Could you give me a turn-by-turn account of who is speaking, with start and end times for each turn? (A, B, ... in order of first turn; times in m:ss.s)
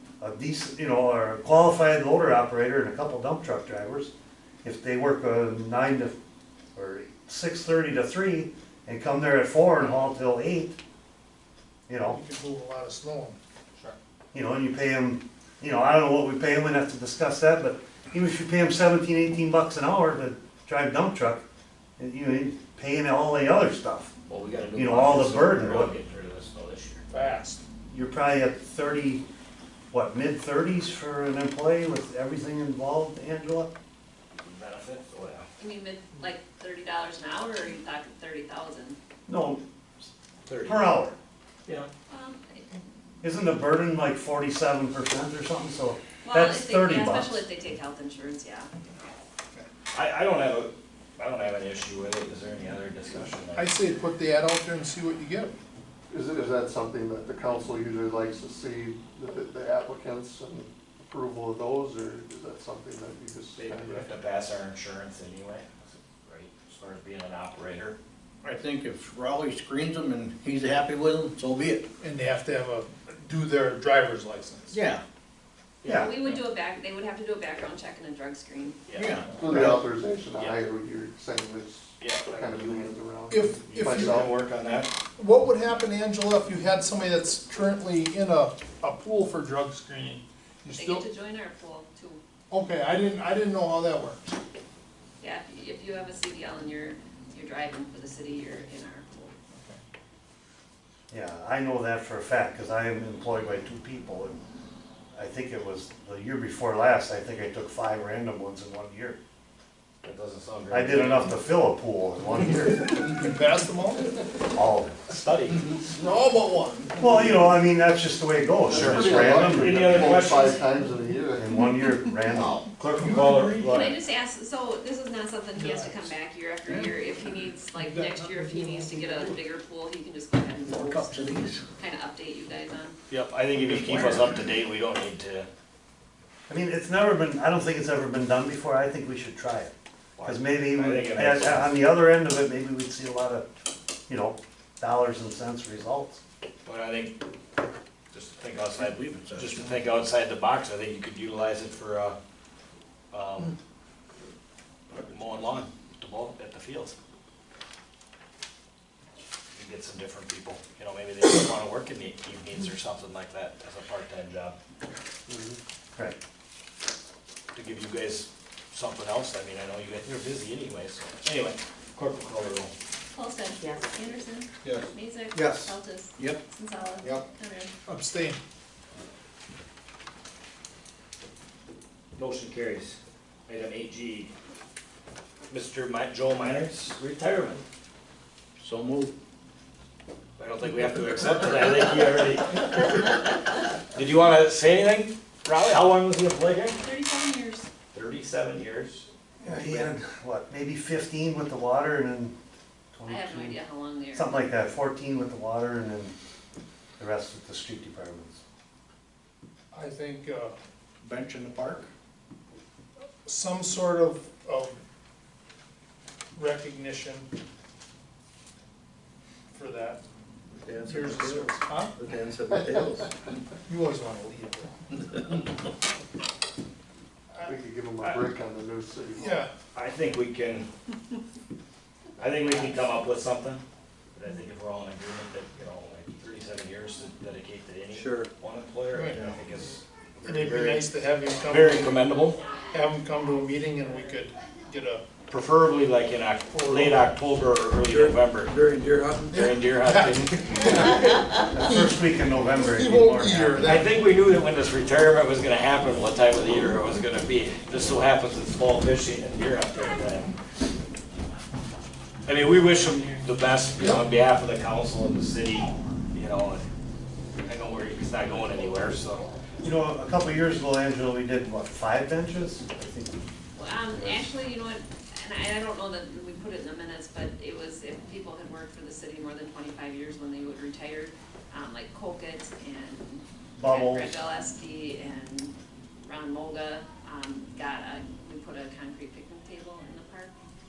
0:00.2-0:06.2 A
0:06.7-0:10.8 A
0:11.9-0:12.2 A
0:12.0-0:13.4 B
0:14.3-0:21.4 A
0:22.0-0:24.1 A
0:24.3-0:27.0 C
0:24.7-0:26.0 A
0:27.1-0:27.6 B
0:27.9-0:29.2 A
0:29.9-0:33.7 A
0:34.4-0:35.4 C
0:35.6-0:39.0 D
0:39.3-0:39.6 A
0:40.4-0:40.9 C
0:40.6-0:41.2 A
0:42.1-0:42.6 D
0:43.2-0:47.5 A
0:46.2-0:48.7 D
0:49.9-0:53.7 C
0:53.5-0:55.5 B
0:56.1-1:04.1 E
1:03.6-1:08.0 C
1:08.4-1:11.9 F
1:12.0-1:14.8 B
1:14.7-1:15.0 F
1:15.8-1:16.4 C
1:15.8-1:16.2 A
1:15.9-1:18.9 D
1:18.9-1:19.7 C
1:18.9-1:19.8 F
1:19.4-1:24.3 E
1:22.0-1:22.9 C
1:23.3-1:24.3 B
1:23.8-1:24.9 C
1:25.2-1:31.1 B
1:30.8-1:32.2 D
1:32.5-1:34.3 B
1:35.2-1:39.3 D
1:39.5-1:39.8 B
1:41.1-1:44.4 A
1:45.1-1:49.2 A
1:50.0-1:51.4 C
1:50.7-1:53.1 A
1:53.2-1:54.1 B
1:54.5-1:55.2 A
1:55.1-1:55.6 C
1:55.9-1:57.1 B
1:57.0-2:00.0 A
1:58.7-2:00.6 C
1:58.7-2:01.5 E
2:01.4-2:02.7 A
2:02.7-2:03.9 C
2:03.1-2:03.5 B
2:03.3-2:03.9 A
2:03.7-2:11.1 D
2:05.6-2:06.1 B
2:06.7-2:09.4 B
2:10.6-2:11.7 F
2:11.8-2:13.0 D
2:13.1-2:15.5 C
2:13.6-2:14.4 F
2:16.5-2:19.7 A
2:20.2-2:21.8 C
2:20.2-2:23.5 A
2:24.1-2:26.2 A
2:26.6-2:27.2 C
2:28.1-2:32.2 C
2:28.8-2:29.7 F
2:33.1-2:33.5 C
2:34.9-2:36.9 C
2:39.5-2:44.5 C
2:45.3-2:45.6 E
2:47.5-2:52.7 C
2:53.1-2:57.7 D
2:54.6-2:54.9 F
2:55.3-2:55.7 A
2:56.2-2:56.4 F
2:57.0-2:57.2 F
2:57.8-2:58.4 B
3:02.2-3:04.3 C
3:05.5-3:07.6 C
3:08.6-3:09.1 F
3:10.4-3:16.8 C
3:16.8-3:17.7 D
3:17.9-3:19.1 C
3:19.4-3:22.3 A
3:22.9-3:23.6 A
3:23.1-3:24.4 D
3:24.1-3:26.1 A
3:27.0-3:28.4 A
3:29.7-3:30.6 B
3:31.0-3:31.9 F
3:33.2-3:34.8 B
3:36.4-3:37.3 B
3:39.5-3:40.0 B
3:40.6-3:43.1 F
3:40.8-3:42.0 B
3:43.7-3:44.8 B
3:47.4-3:49.4 E
3:49.2-3:49.5 B
3:49.7-3:50.7 C
3:52.2-3:53.6 C
3:54.1-4:00.8 C
3:57.9-3:58.3 F
3:58.9-3:59.3 B
4:00.2-4:02.0 B
4:01.5-4:02.4 C
4:02.7-4:05.1 B
4:05.3-4:08.5 C
4:06.5-4:07.1 B
4:07.8-4:09.4 F
4:09.3-4:12.0 B
4:09.4-4:10.9 C
4:11.5-4:13.8 A
4:12.7-4:14.0 B
4:13.6-4:20.3 C
4:22.2-4:26.6 C
4:27.4-4:29.2 C
4:29.6-4:33.2 A
4:33.6-4:45.5 D
4:33.9-4:34.3 A
4:43.6-4:44.2 A
4:46.0-4:50.3 D